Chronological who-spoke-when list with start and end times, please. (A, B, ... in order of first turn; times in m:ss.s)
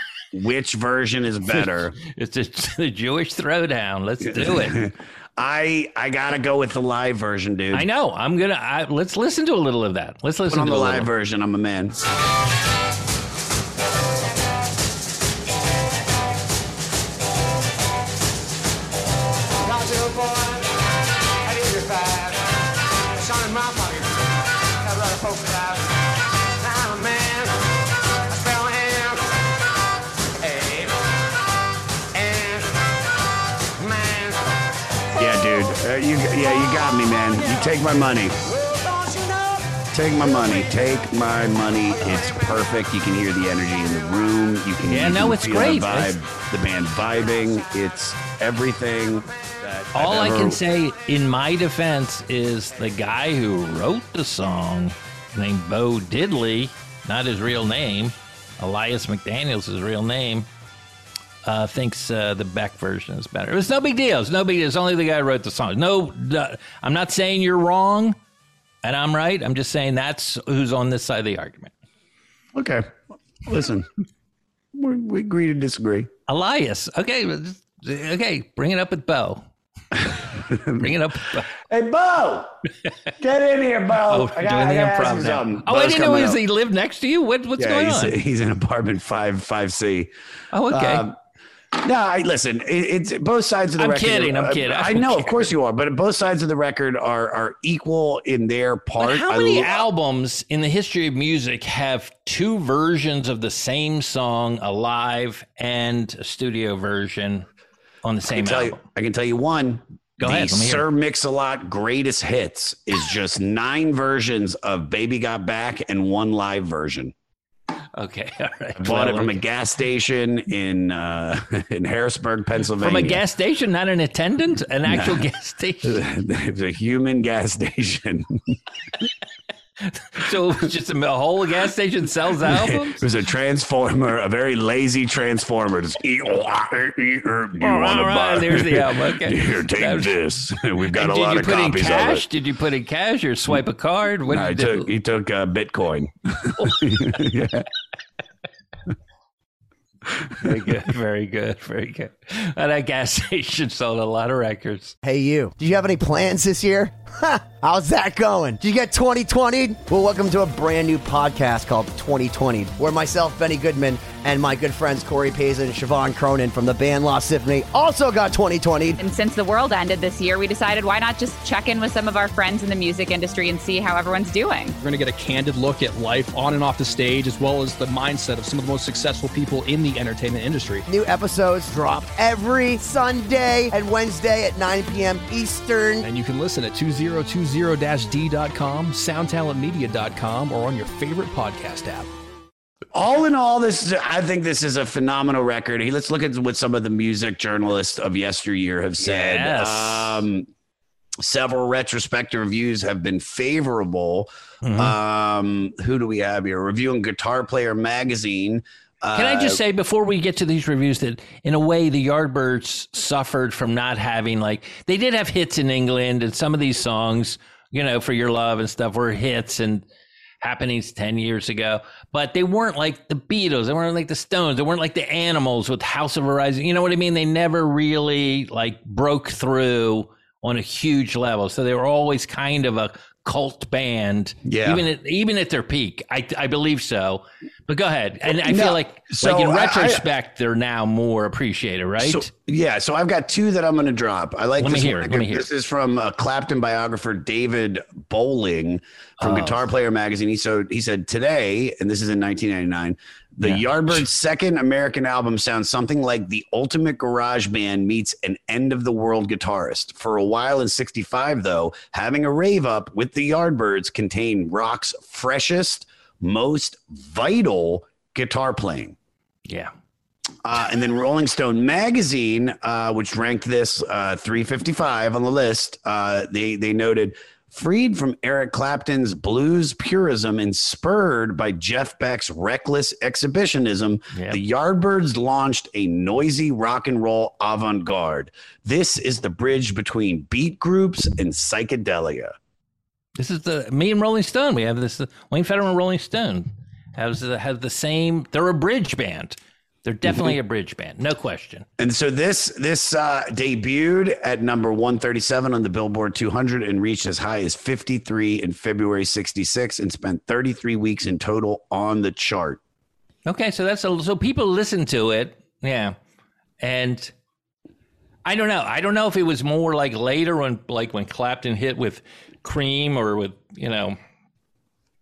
0:00.3-0:01.9 A
0:02.0-0:04.8 B
0:04.2-0:07.9 A
0:07.7-0:11.1 B
0:10.5-0:12.0 A
0:19.8-0:20.4 A
0:21.5-0:22.3 A
0:23.3-0:23.9 A
0:24.9-0:25.8 A
0:26.7-0:27.4 A
0:28.4-0:29.1 A
0:30.5-0:30.9 A
0:32.2-0:32.6 A
0:33.8-0:34.2 A
0:35.2-0:38.4 A
0:39.9-0:50.6 A
0:42.0-0:42.3 B
0:44.9-0:46.1 B
0:49.9-1:00.5 B
1:01.4-1:08.2 B
1:08.8-1:11.7 B
1:12.5-1:13.9 A
1:14.7-1:16.1 A
1:16.3-1:19.4 B
1:19.9-1:20.9 A
1:20.8-1:21.5 B
1:21.6-1:22.5 A
1:23.2-1:26.4 A
1:24.1-1:28.2 B
1:27.6-1:30.1 A
1:30.5-1:31.0 B
1:30.7-1:31.2 A
1:31.8-1:39.8 A
1:33.8-1:35.5 B
1:39.0-1:47.5 B
1:48.0-1:48.8 B
1:48.2-1:57.1 A
1:50.2-1:50.8 B
1:58.0-1:59.4 B
1:58.8-2:03.2 A
2:02.8-2:06.0 B
2:04.8-2:05.2 A
2:05.8-2:08.4 A
2:09.8-2:13.0 B
2:12.4-2:22.2 A
2:17.6-2:20.1 B
2:20.9-2:24.9 B
2:24.3-2:27.6 A
2:26.6-2:26.8 B
2:30.4-2:35.0 B
2:30.5-2:30.7 A
2:35.0-2:49.0 C
2:49.0-2:54.7 D
2:54.8-3:00.8 E
3:00.9-3:06.1 C
3:06.0-3:12.1 E
3:12.9-3:20.5 A
3:19.0-3:20.2 B
3:21.2-3:29.6 A
3:24.6-3:25.0 B
3:29.1-3:39.8 B
3:40.4-4:02.3 B
3:54.4-3:54.8 A
3:58.2-4:00.0 A
4:02.0-4:29.0 A
4:04.6-4:05.5 B
4:09.2-4:09.6 B
4:13.4-4:14.0 B
4:29.5-4:29.7 B
4:30.4-4:52.3 A
4:44.1-4:44.4 B
4:53.2-5:01.7 B
5:00.0-5:00.4 A
5:01.8-5:12.6 A
5:13.3-5:16.0 B
5:16.6-5:17.1 B
5:18.2-5:24.0 B